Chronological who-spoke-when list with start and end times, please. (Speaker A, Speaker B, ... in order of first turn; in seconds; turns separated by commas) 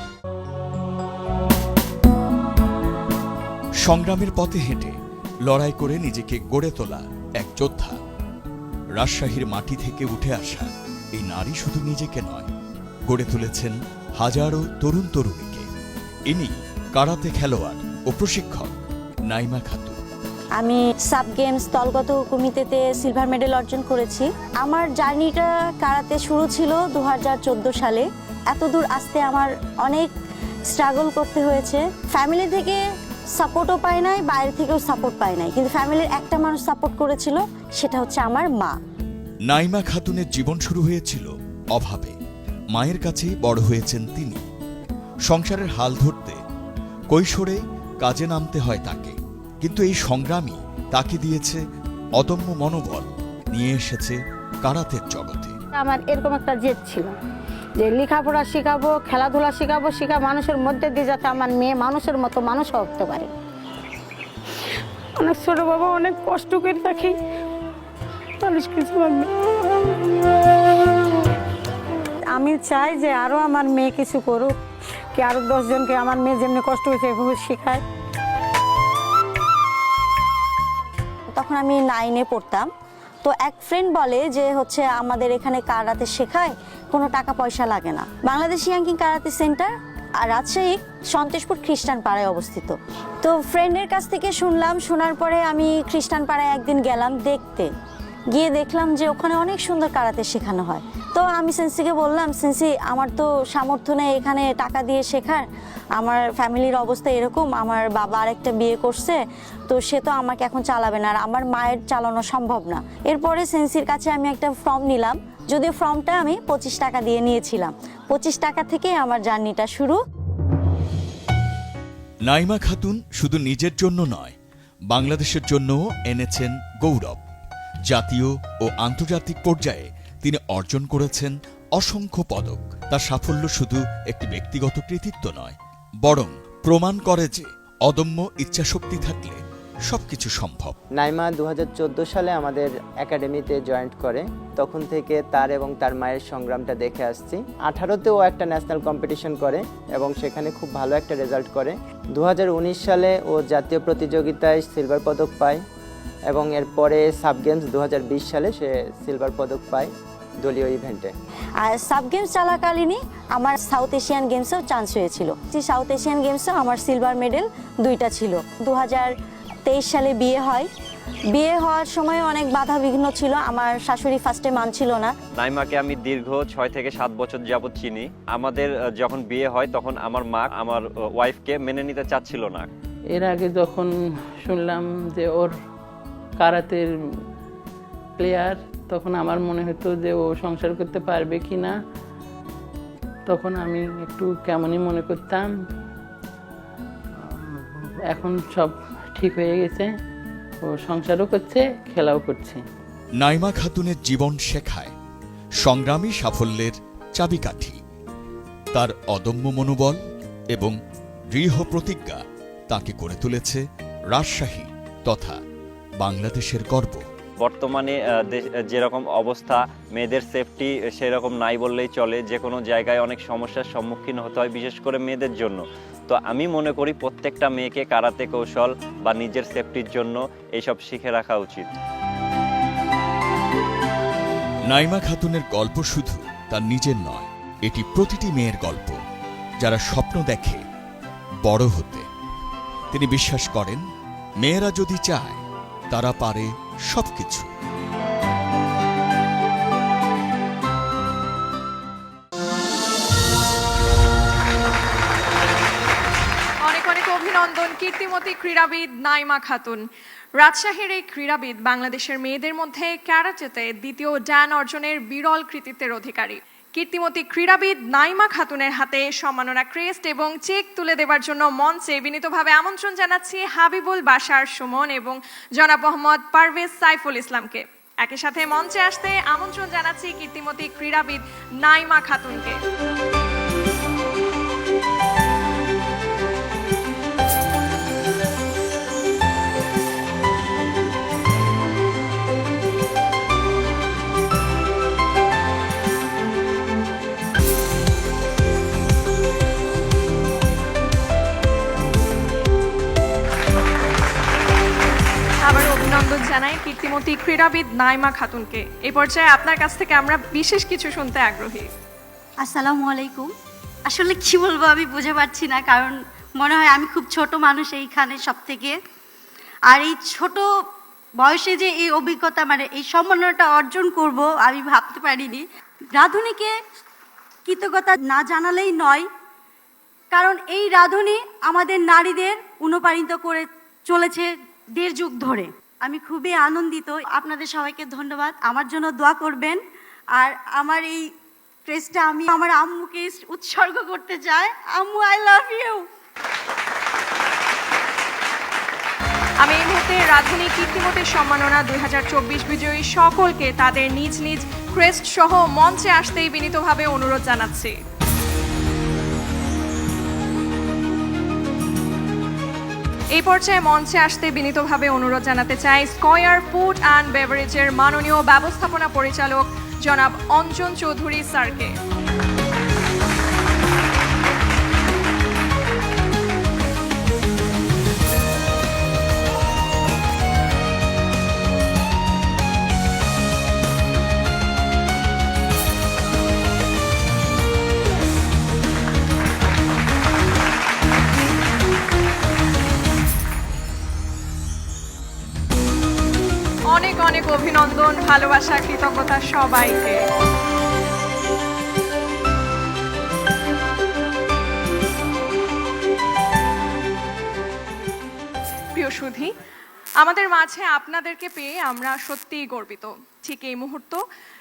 Speaker A: 3.8-5.0, Speaker A: 5.5-8.0, Speaker A: 9.0-12.5, Speaker A: 13.1-15.7, Speaker A: 16.3-18.7, Speaker A: 19.3-20.0, Speaker B: 20.6-30.1, Speaker B: 30.7-32.8, Speaker B: 33.4-38.8, Speaker A: 39.5-42.2, Speaker A: 42.7-44.4, Speaker A: 45.3-46.4, Speaker A: 47.1-51.6, Speaker A: 52.2-55.5, Speaker C: 55.8-57.1, Speaker C: 57.8-63.3, Speaker C: 65.2-67.2, Speaker C: 68.4-69.3, Speaker C: 72.4-74.6, Speaker C: 75.2-77.8, Speaker B: 81.3-82.7, Speaker B: 83.2-97.7, Speaker B: 98.3-105.4, Speaker B: 106.0-109.2, Speaker B: 109.7-120.0, Speaker A: 122.3-124.3, Speaker A: 124.9-127.2, Speaker A: 127.9-140.7, Speaker D: 140.9-155.6, Speaker D: 156.3-161.1, Speaker B: 161.6-169.1, Speaker B: 169.7-170.7, Speaker B: 171.3-175.1, Speaker E: 175.4-182.7, Speaker F: 183.1-183.9, Speaker F: 184.4-185.5, Speaker F: 186.4-186.9, Speaker F: 188.2-191.8, Speaker F: 193.3-195.5, Speaker F: 197.2-199.9, Speaker F: 200.6-202.6, Speaker A: 203.2-204.9, Speaker A: 205.6-207.8, Speaker A: 208.7-210.0, Speaker A: 211.3-215.4, Speaker A: 216.0-217.0, Speaker E: 217.4-231.7, Speaker A: 234.7-239.0, Speaker A: 239.6-240.6, Speaker A: 241.4-242.1, Speaker A: 242.9-243.8, Speaker A: 244.4-247.5, Speaker G: 256.6-259.9, Speaker G: 260.4-282.6, Speaker G: 305.4-311.7, Speaker H: 312.4-313.3, Speaker H: 313.9-318.7, Speaker H: 319.7-320.4, Speaker H: 321.2-326.5, Speaker H: 327.5-329.1, Speaker H: 330.1-339.6, Speaker H: 340.1-341.1, Speaker H: 341.7-345.9, Speaker G: 349.4-357.8, Speaker G: 363.1-371.7, Speaker G: 396.7-400.0, Speaker G: 408.7-409.3, Speaker G: 410.0-414.0